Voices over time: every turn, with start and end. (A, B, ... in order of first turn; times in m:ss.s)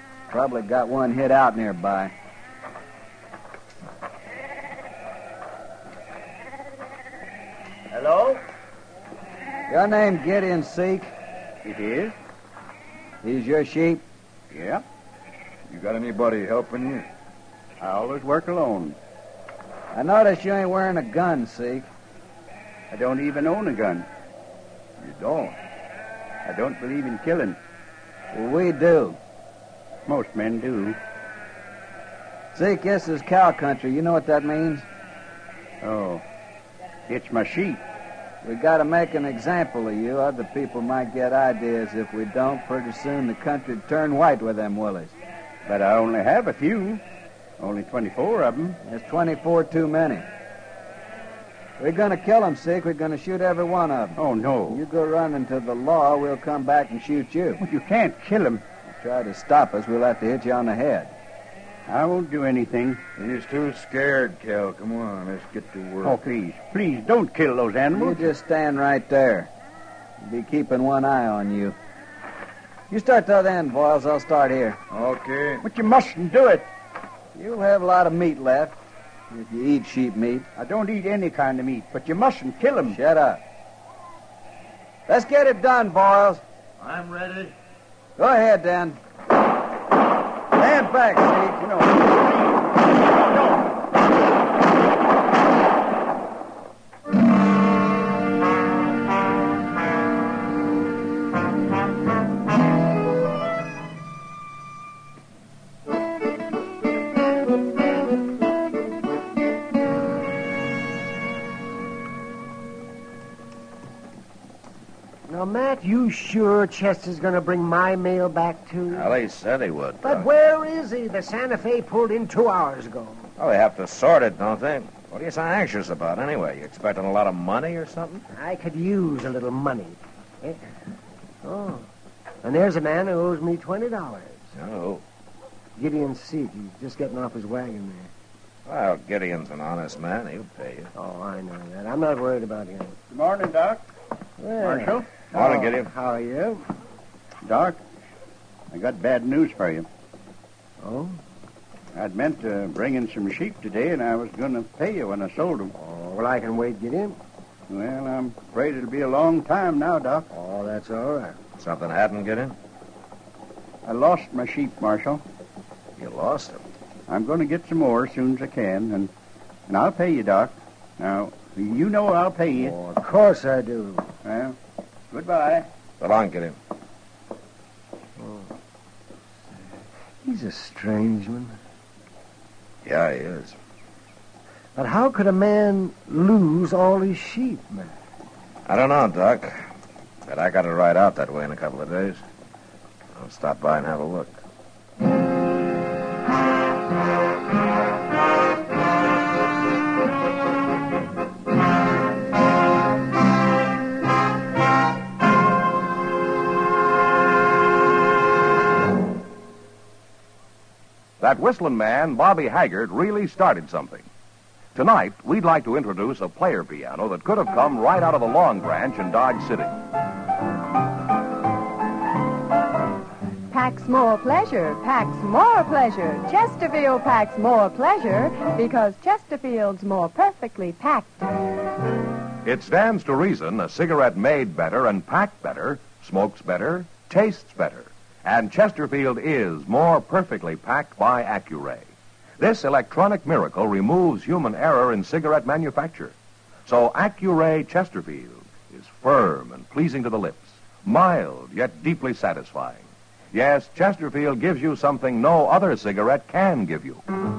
0:00.3-0:02.1 A
0:07.9-0:08.4 B
0:09.7-0:11.1 A
0:11.6-0:12.1 B
0:13.2-0:14.0 A
0:14.5-0:14.8 B
0:15.7-0:17.1 C
0:17.8-0:19.0 B
0:19.9-0:21.9 A
0:22.9-0:24.1 B
0:25.0-0:25.6 C
0:26.4-0:27.6 B
0:28.3-0:29.2 A
0:30.1-0:31.0 B
0:32.5-0:34.8 A
0:35.8-0:36.2 B
0:37.1-0:37.8 B
0:38.4-0:45.2 A
0:45.7-0:47.0 B
0:47.6-0:48.8 B
0:48.8-0:50.3 A
0:51.8-0:54.2 A
0:54.2-0:54.8 B
0:54.7-0:57.6 A
0:57.6-0:58.6 B
0:58.8-1:01.1 A
1:01.9-1:03.0 B
1:03.2-1:06.2 C
1:06.0-1:08.3 B
1:07.9-1:09.5 A
1:10.2-1:11.8 A
1:12.9-1:14.8 A
1:14.9-1:15.6 C
1:15.6-1:16.7 B
1:17.4-1:18.8 A
1:19.3-1:20.5 A
1:20.6-1:23.0 B
1:22.9-1:23.4 A
1:25.1-1:26.4 A
1:26.8-1:27.5 C
1:28.2-1:29.0 A
1:30.5-1:31.7 A
1:31.6-1:32.4 B
1:33.3-1:33.6 B
1:55.3-1:59.1 D
1:58.9-2:00.3 E
2:00.0-2:03.3 D
2:03.4-2:08.2 E
2:08.3-2:10.6 D
2:11.4-2:11.9 D
2:12.4-2:14.4 D
2:14.6-2:15.0 E
2:15.8-2:18.1 D
2:18.7-2:20.9 E
2:21.0-2:23.0 D
2:23.1-2:23.9 B
2:24.4-2:26.6 D
2:24.6-2:25.1 B
2:25.3-2:25.9 E
2:27.4-2:27.8 B
2:28.7-2:29.9 B
2:30.8-2:31.2 D
2:32.0-2:35.8 B
2:35.8-2:37.2 D
2:37.7-2:40.3 B
2:40.3-2:41.4 D
2:41.6-2:42.6 E
2:43.8-2:45.2 B
2:46.0-2:46.6 E
2:47.1-2:49.1 B
2:49.7-2:52.8 B
2:52.6-2:54.1 D
2:54.2-2:54.6 B
2:55.1-2:55.7 B
2:56.0-2:56.6 E
2:58.2-2:58.5 D
3:00.2-3:01.6 D
3:02.8-3:03.6 E
3:04.8-3:07.9 D
3:08.7-3:09.6 E
3:10.3-3:12.2 E
3:13.2-3:14.4 E
3:31.2-3:34.1 F
3:34.8-3:39.8 F
3:43.5-3:51.3 G
3:52.4-4:01.9 F
4:02.4-4:06.2 F
4:06.7-4:17.0 F